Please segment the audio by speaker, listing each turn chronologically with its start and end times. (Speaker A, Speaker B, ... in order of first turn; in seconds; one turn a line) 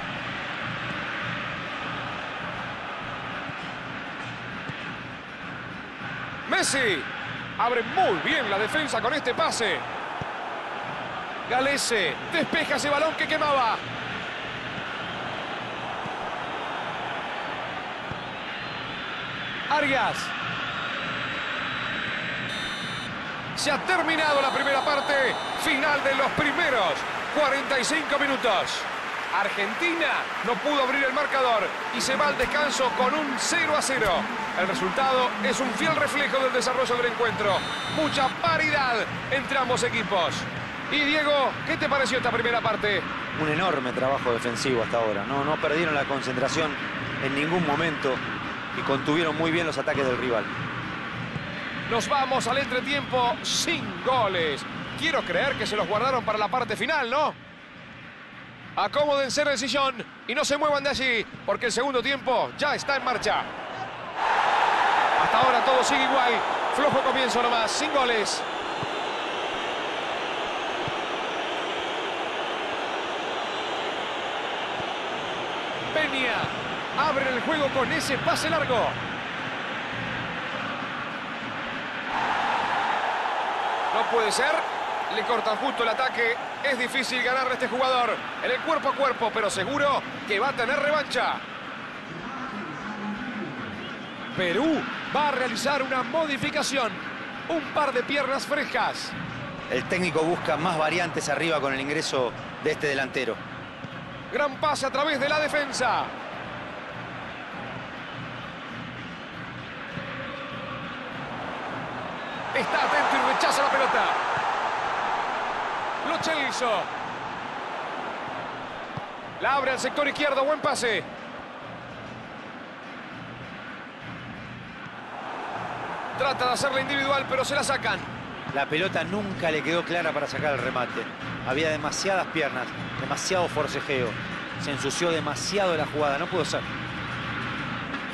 Speaker A: 6.4-9.8
Speaker A: 11.4-13.8
Speaker A: 19.7-20.3
Speaker A: 23.5-43.1
Speaker B: 43.3-48.2
Speaker B: 48.7-50.5
Speaker A: 51.9-57.4
Speaker A: 58.7-63.5
Speaker A: 65.2-68.5
Speaker A: 75.9-79.0
Speaker A: 83.9-91.4
Speaker A: 94.3-99.1
Speaker B: 99.7-103.4
Speaker A: 104.3-106.1
Speaker A: 112.5-114.2
Speaker A: 116.0-116.9
Speaker A: 119.4-121.1
Speaker A: 126.2-128.1
Speaker B: 128.5-136.7